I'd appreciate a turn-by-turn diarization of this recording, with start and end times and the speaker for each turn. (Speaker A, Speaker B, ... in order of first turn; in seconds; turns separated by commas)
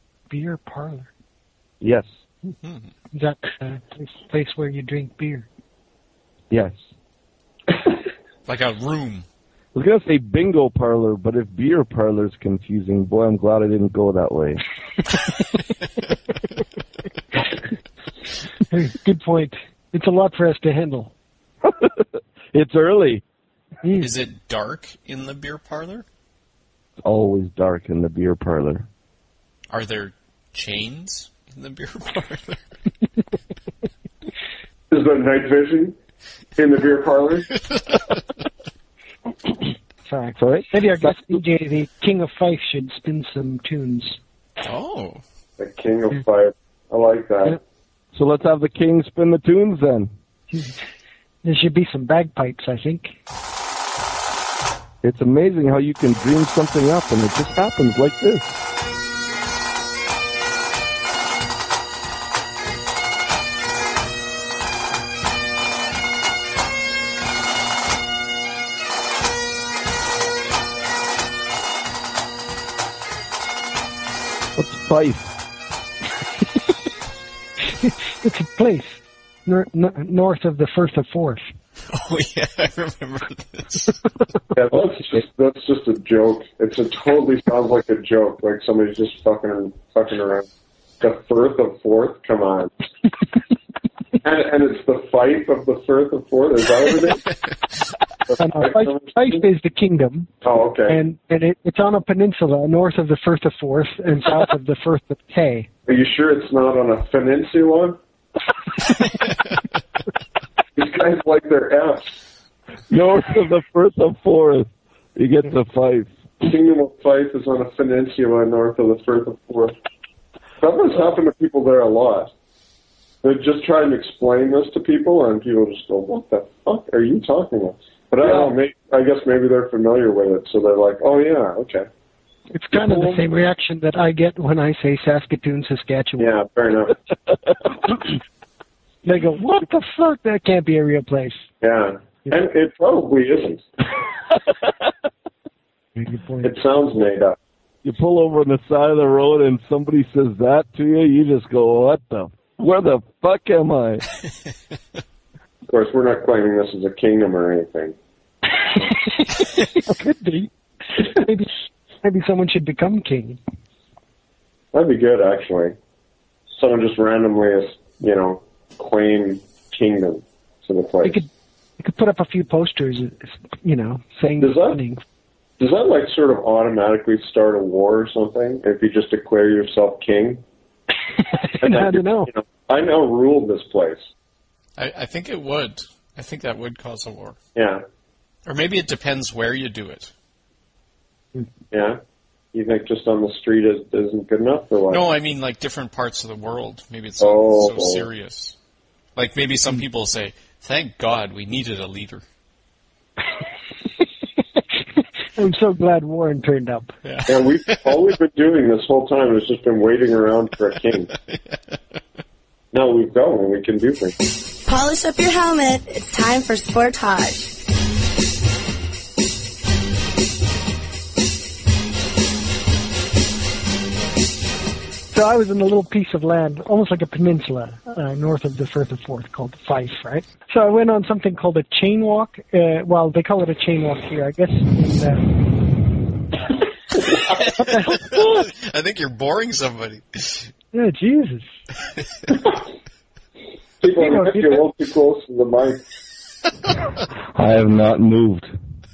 Speaker A: 0.3-1.1, Speaker B: 2.6-2.9, Speaker A: 3.1-5.5, Speaker C: 6.5-6.8, Speaker B: 8.5-9.2, Speaker C: 9.8-14.6, Speaker A: 18.7-21.1, Speaker C: 21.6-23.2, Speaker A: 23.8-24.1, Speaker B: 24.0-26.1, Speaker C: 27.0-28.9, Speaker B: 29.7-32.6, Speaker D: 34.9-36.0, Speaker D: 36.6-37.5, Speaker B: 37.9-38.1, Speaker A: 40.1-44.2, Speaker C: 40.4-41.2, Speaker B: 44.6-45.2, Speaker D: 45.6-47.6, Speaker C: 48.1-50.1, Speaker A: 50.5-50.8, Speaker A: 51.4-53.1, Speaker C: 55.0-58.5, Speaker C: 74.6-75.3, Speaker A: 77.8-81.5, Speaker B: 81.9-84.0, Speaker D: 84.5-90.5, Speaker D: 91.0-92.7, Speaker D: 94.2-97.3, Speaker A: 98.4-100.3, Speaker D: 98.5-99.4, Speaker D: 100.4-101.0, Speaker A: 100.9-105.7, Speaker D: 105.9-108.0, Speaker D: 110.8-112.1, Speaker C: 112.9-116.1, Speaker D: 116.4-119.7, Speaker D: 120.6-122.3, Speaker D: 123.2-131.9, Speaker C: 128.2-128.5, Speaker A: 132.5-136.3, Speaker D: 136.2-137.0, Speaker A: 139.1-141.4, Speaker D: 141.6-143.7, Speaker A: 146.0-146.5, Speaker D: 146.4-147.4, Speaker C: 147.8-154.1, Speaker D: 155.7-158.0, Speaker A: 158.9-163.4, Speaker D: 164.7-165.8, Speaker D: 166.5-171.2, Speaker A: 171.0-175.0, Speaker D: 174.4-174.8, Speaker D: 175.6-180.4, Speaker A: 181.2-182.3, Speaker D: 181.6-184.1, Speaker B: 184.8-187.4, Speaker D: 187.6-187.8, Speaker B: 188.5-190.1, Speaker D: 191.7-192.0, Speaker D: 192.5-195.1, Speaker B: 194.9-198.6, Speaker D: 197.2-198.1, Speaker B: 199.2-202.2, Speaker A: 205.4-206.9, Speaker B: 207.0-208.0, Speaker D: 207.3-211.1, Speaker B: 211.3-211.8, Speaker D: 212.7-214.2, Speaker E: 214.7-217.5, Speaker A: 225.1-235.2, Speaker A: 237.6-237.9, Speaker B: 237.6-240.5, Speaker A: 240.7-241.5, Speaker D: 243.8-245.8, Speaker A: 244.0-244.7, Speaker C: 247.3-248.5